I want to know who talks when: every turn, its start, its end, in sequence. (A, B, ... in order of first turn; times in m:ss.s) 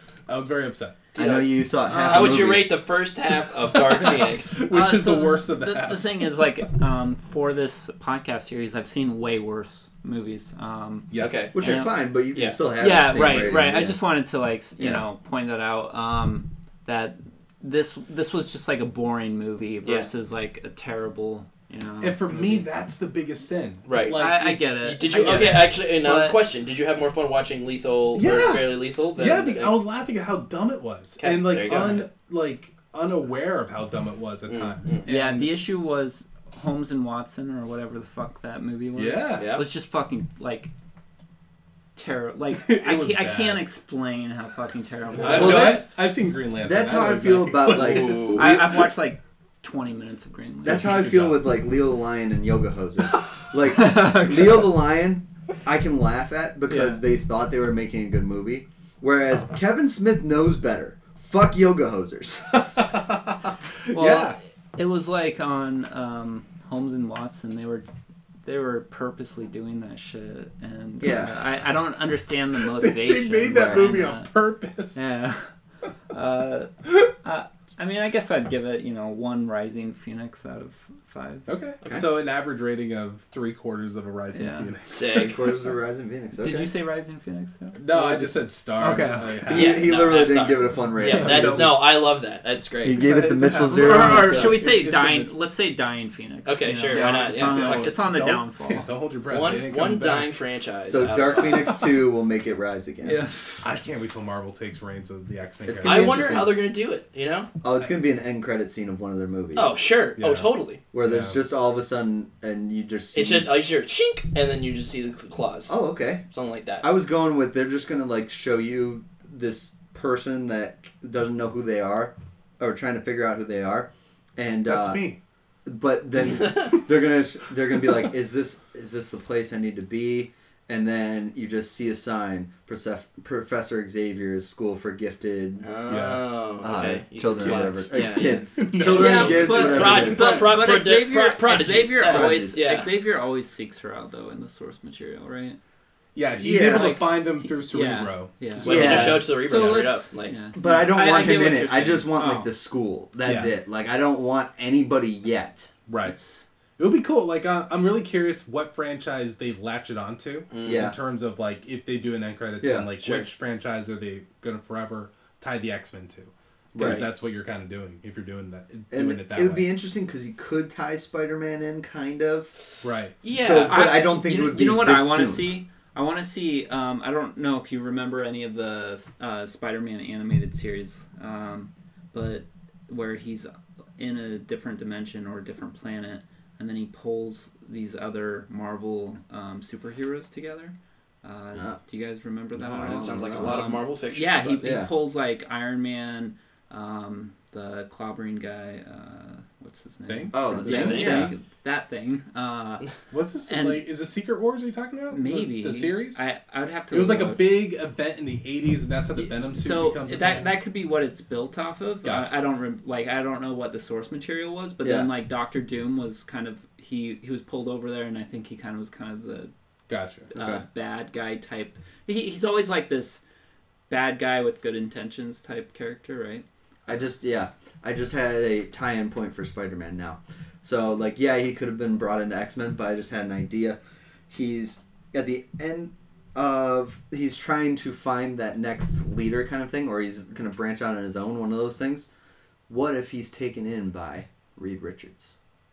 0:00.3-0:01.1 A
0:01.1-0:02.8 B
0:01.1-0:04.6 C
0:01.9-0:02.4 D
0:03.6-0:06.4 A
0:04.7-0:11.9 D
0:11.1-0:11.4 A
0:11.2-0:11.6 C
0:11.5-0:14.0 B
0:12.3-0:12.6 C
0:12.8-0:22.2 D
0:14.8-0:15.0 B
0:19.8-0:20.1 C
0:22.0-0:25.6 A
0:22.3-0:22.6 C
0:23.9-0:29.8 C
0:24.1-0:26.4 D
0:28.1-0:35.5 A
0:31.2-0:32.1 C
0:34.5-0:35.0 C
0:35.0-0:40.7 D
0:39.0-0:39.6 A
0:39.4-0:39.6 C
0:42.0-0:45.8 D
0:42.6-0:43.6 A
0:45.2-0:45.7 C
0:45.2-0:48.9 A
0:45.2-0:45.9 B
0:46.6-0:48.6 B
0:47.6-0:48.6 C
0:48.3-0:51.1 D
0:50.6-0:51.5 A
0:50.6-1:02.6 B
0:53.6-0:54.7 D
0:56.7-0:57.0 D
1:02.7-1:04.4 A
1:03.9-1:07.9 D
1:08.4-1:14.3 D
1:11.0-1:11.4 B
1:12.7-1:15.1 A
1:13.4-1:13.9 B
1:14.9-1:15.5 D
1:16.1-1:21.5 D
1:21.4-1:25.3 A
1:24.3-1:24.7 D
1:24.9-1:25.5 C
1:25.1-1:26.7 B
1:26.4-1:29.4 D
1:27.7-1:29.9 A
1:29.5-1:31.9 B
1:29.5-1:33.1 C
1:31.1-1:31.8 A
1:32.8-1:34.6 B
1:33.0-1:35.3 A
1:33.0-1:38.9 D
1:36.4-1:37.9 C
1:36.9-1:40.4 A
1:39.3-1:41.8 C
1:40.8-1:43.2 B
1:43.0-1:43.7 D
1:43.6-1:46.5 A
1:45.6-1:46.6 B
1:45.8-1:47.5 C
1:47.6-1:49.8 B
1:49.5-1:50.8 C
1:50.2-1:51.4 A
1:50.9-1:53.5 B
1:53.1-1:55.8 C
1:55.7-1:56.2 B
1:56.3-1:56.9 C
1:56.8-2:05.1 B
2:04.6-2:05.2 A
2:05.6-2:15.7 B
2:15.6-2:22.9 C
2:15.9-2:16.2 A
2:16.6-2:20.5 B
2:17.4-2:20.4 A
2:17.9-2:25.6 D
2:22.1-2:22.6 B
2:26.1-2:29.2 A
2:26.4-2:27.0 B
2:26.7-2:32.5 D
2:28.6-2:29.3 B
2:28.6-2:30.4 C
2:30.5-2:35.7 B
2:33.2-2:33.5 A
2:35.9-2:36.2 A
2:36.0-2:36.4 D
2:36.8-2:49.6 A
2:40.5-2:40.9 C
2:40.6-2:41.0 B
2:42.6-2:42.9 B
2:43.0-2:43.3 C
2:46.7-2:47.0 B
2:46.8-2:47.1 C
2:48.9-2:52.5 B
2:52.8-2:53.2 A
2:53.2-2:54.1 C
2:53.3-2:55.5 B
2:53.6-3:22.9 D
3:12.5-3:13.7 B
3:12.8-3:14.7 C
3:14.6-3:14.9 B
3:20.1-3:21.3 A
3:20.3-3:21.3 B
3:20.7-3:21.3 C
3:23.1-3:26.3 A
3:23.5-3:23.9 D
3:25.1-3:27.4 D
3:26.9-3:30.5 A
3:29.2-3:39.5 D
3:32.0-3:32.3 A
3:34.8-3:35.1 B
3:39.9-3:40.3 A
3:40.3-3:40.6 B
3:40.3-3:43.2 D
3:43.9-3:46.4 D
3:46.9-3:53.8 B
3:54.3-4:02.1 B
4:02.7-4:05.4 B